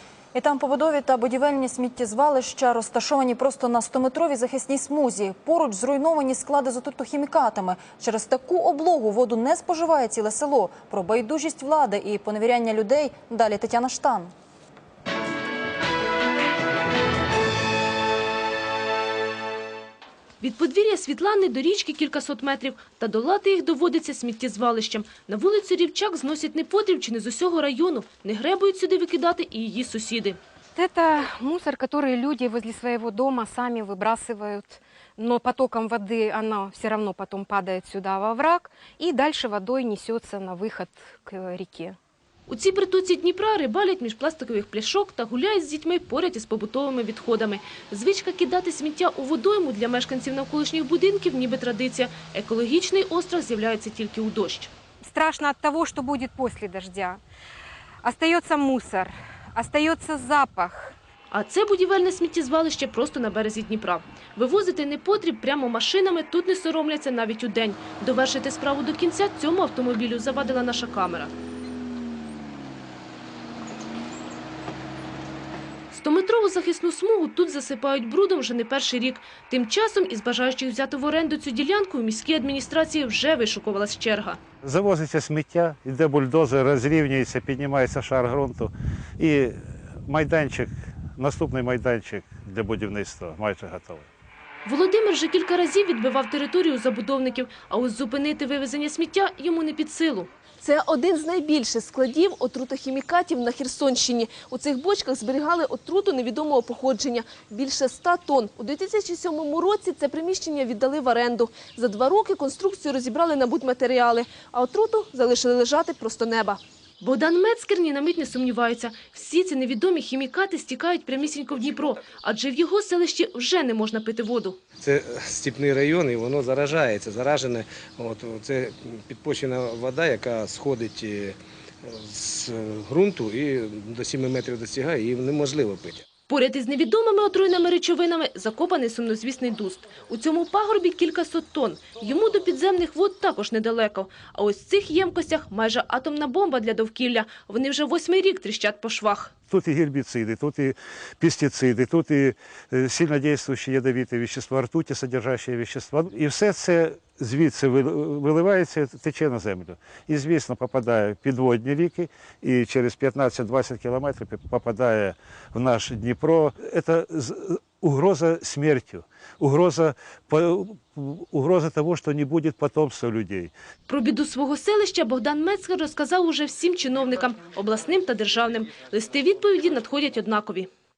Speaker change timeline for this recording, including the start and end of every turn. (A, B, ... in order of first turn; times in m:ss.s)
0:00.4-0:14.3 A
0:20.4-0:30.4 B
0:30.8-0:42.0 C
0:42.5-0:54.7 B
0:55.0-0:57.2 C
0:58.0-1:01.0 C
1:01.3-1:11.3 B
1:15.9-1:24.4 B
1:24.6-1:34.1 D
1:34.7-1:40.3 B
1:40.6-1:56.6 E
1:57.0-2:04.6 B
2:04.8-2:16.0 F
2:16.3-2:29.3 B
2:29.5-2:53.5 D
2:53.9-3:00.7 B